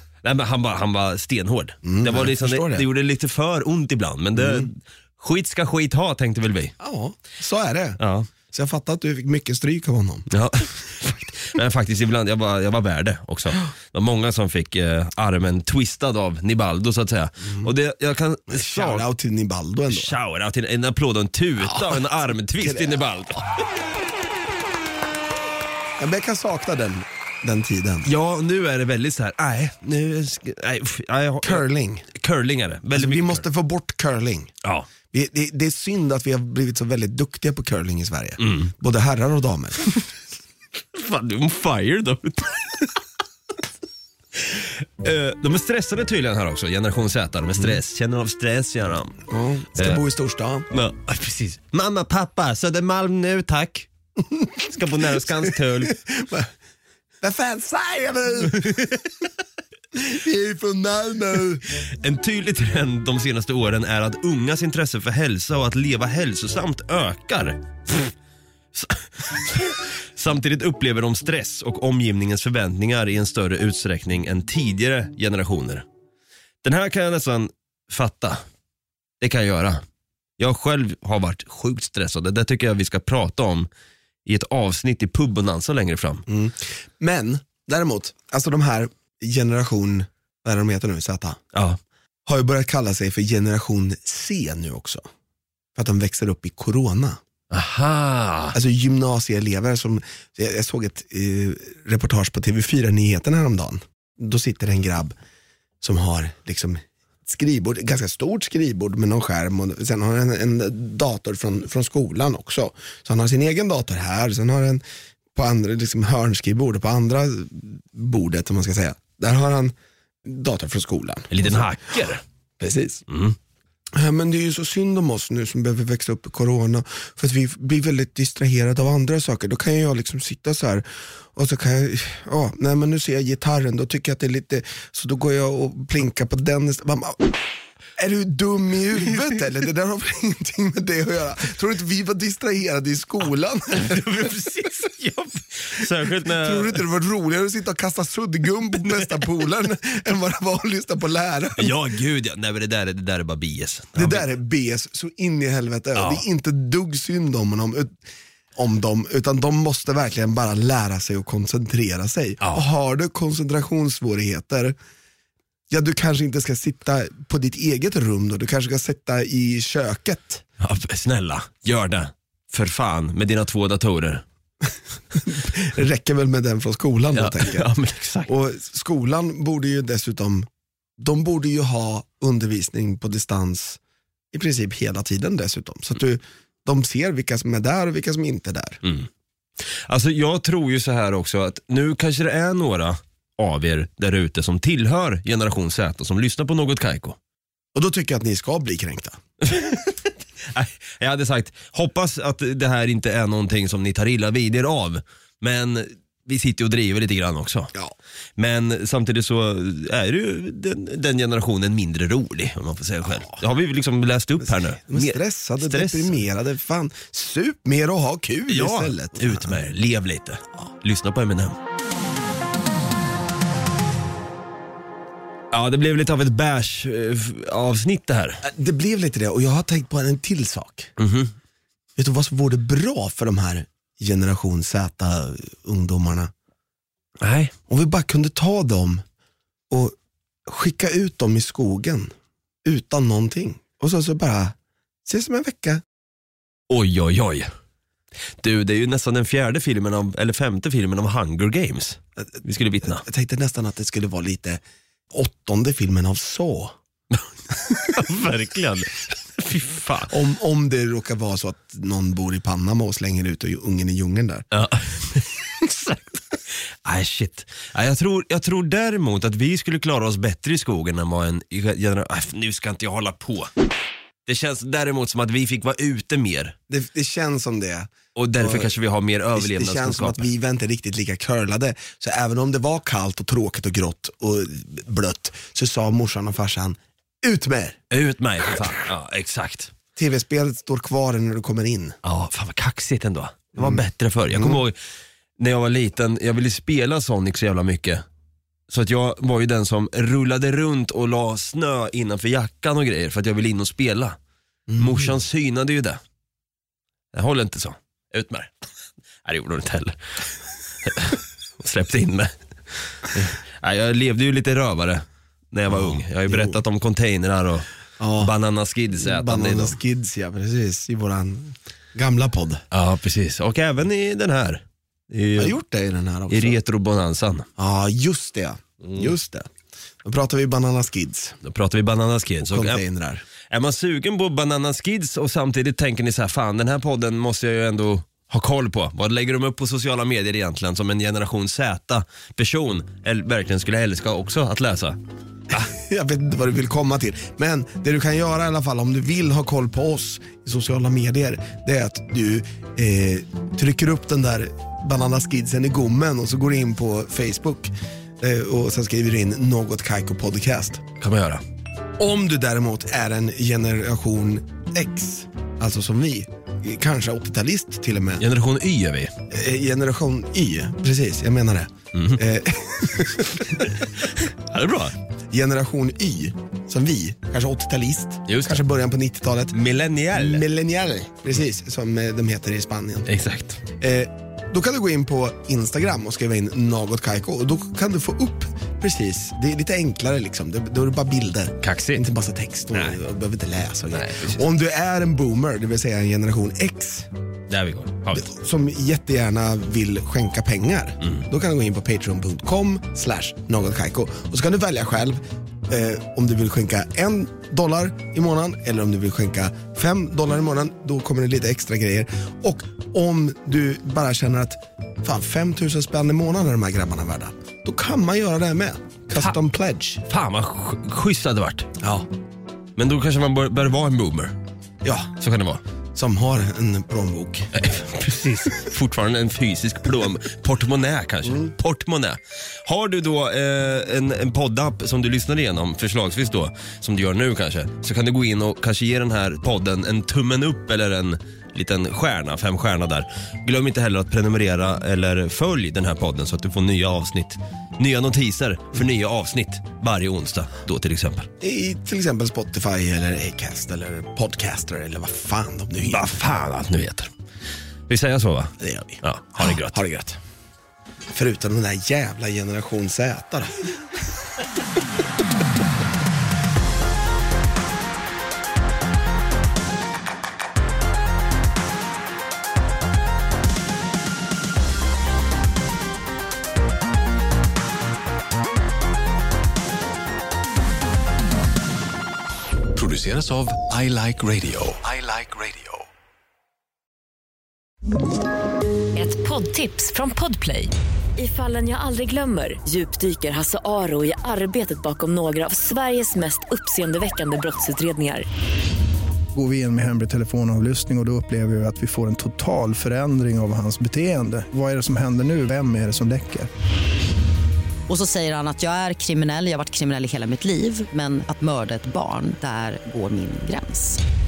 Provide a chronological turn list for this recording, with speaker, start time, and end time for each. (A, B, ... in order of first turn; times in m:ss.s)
0:00.2-0:06.7 A
0:01.8-0:02.8 B
0:04.3-0:04.7 B
0:06.8-0:10.3 B
0:08.0-0:08.3 A
0:10.3-0:19.1 A
0:17.4-0:17.7 B
0:18.5-0:20.1 B
0:19.9-0:23.6 A
0:21.6-0:22.0 B
0:22.5-0:23.0 B
0:26.0-0:28.1 B
0:28.0-0:33.4 A
0:31.4-0:32.1 B
0:32.9-0:34.5 B
0:34.6-0:34.9 A
0:35.0-0:39.8 B
0:38.4-0:38.7 A
0:40.9-0:42.9 A
0:44.4-0:49.2 A
0:49.3-0:50.7 B
0:49.8-0:50.0 A
0:50.7-0:53.9 A
0:54.3-0:56.5 B
0:54.7-0:56.0 A
0:57.2-0:58.8 B
0:58.7-0:58.9 A
0:59.9-1:01.6 B
1:01.8-1:08.1 A
1:08.7-1:15.8 A
1:16.6-1:18.4 A
1:19.2-1:19.8 A
1:20.4-1:23.7 A
1:24.2-1:26.2 A
1:26.3-1:31.4 B
1:31.5-1:31.8 A
1:32.3-1:35.0 B
1:35.7-1:37.2 B
1:37.5-1:38.6 A
1:38.5-1:45.1 B
1:45.8-1:54.8 B
1:55.3-2:01.7 B
2:01.3-2:02.2 A
2:02.6-2:03.0 B
2:03.1-2:03.4 A
2:03.9-2:17.3 B
2:18.0-2:24.7 B
2:23.8-2:26.8 A
2:26.2-2:31.8 B
2:31.6-2:34.3 A
2:33.9-2:38.0 B
2:36.0-2:36.2 A
2:38.5-2:44.8 B
2:45.7-2:50.4 B
2:50.6-2:54.2 A
2:54.6-2:57.7 B
2:57.1-2:58.3 A
2:58.2-3:00.5 B
3:01.0-3:03.8 B
3:04.3-3:08.8 B
3:08.8-3:09.1 A
3:09.9-3:17.2 A
3:17.7-3:19.2 B
3:19.4-3:27.7 A
3:28.4-3:36.2 A
3:34.4-3:39.6 B
3:38.5-3:41.6 A
3:45.5-3:48.4 A
3:48.4-3:50.9 B
3:51.0-3:51.3 A
3:52.0-3:56.3 B
3:57.2-3:57.5 A
3:57.7-3:59.0 B
3:59.7-4:02.1 B
4:02.6-4:04.5 B
4:05.0-4:05.8 B
4:06.7-4:07.5 A
4:08.4-4:13.0 A
4:12.8-4:16.8 B
4:17.1-4:20.1 A
4:20.1-4:24.5 B
4:24.5-4:33.5 A
4:34.2-4:36.5 A
4:36.7-4:38.8 B
4:38.2-4:40.3 A
4:39.3-4:47.8 B
4:47.9-4:49.7 A
4:50.0-4:52.0 B
4:52.0-4:54.8 A
4:53.6-4:54.6 B
4:55.4-4:58.0 A
4:58.7-5:04.2 A
5:04.7-5:05.1 B
5:04.8-5:06.0 A
5:07.1-5:08.5 A
5:09.2-5:17.6 A
5:15.7-5:16.6 B
5:18.0-5:18.3 B
5:18.2-5:19.8 A
5:19.0-5:22.6 B
5:22.7-5:25.6 A
5:25.4-5:26.6 B
5:26.3-5:27.5 A
5:27.6-5:29.5 B
5:28.8-5:29.1 A
5:30.0-5:31.4 B
5:31.4-5:32.8 A
5:32.4-5:33.2 B
5:33.5-5:45.0 A
5:45.5-6:00.8 B
6:01.0-6:01.4 A
6:02.0-6:08.2 B
6:08.2-6:09.1 A
6:09.3-6:13.9 B
6:11.9-6:12.2 A
6:13.6-6:15.0 A
6:15.3-6:19.6 B
6:18.3-6:18.6 A
6:19.5-6:20.4 A
6:20.1-6:23.1 B
6:23.1-6:23.6 A
6:23.8-6:37.1 B
6:31.6-6:32.0 A
6:32.7-6:33.0 A
6:33.9-6:34.4 A
6:37.5-6:38.3 A
6:38.1-7:00.0 B
7:00.0-7:01.7 A
7:01.8-7:02.1 B
7:02.8-7:04.3 A
7:04.8-7:05.1 B
7:05.2-7:05.6 A
7:05.9-7:07.5 B
7:07.5-7:31.3 A
7:31.4-7:36.2 B
7:35.9-7:37.1 A
7:37.9-7:39.8 A
7:38.6-7:40.2 B
7:41.1-7:44.0 B
8:02.7-8:05.9 C
8:09.0-8:18.3 D
8:19.3-8:26.5 E
8:27.9-8:34.0 F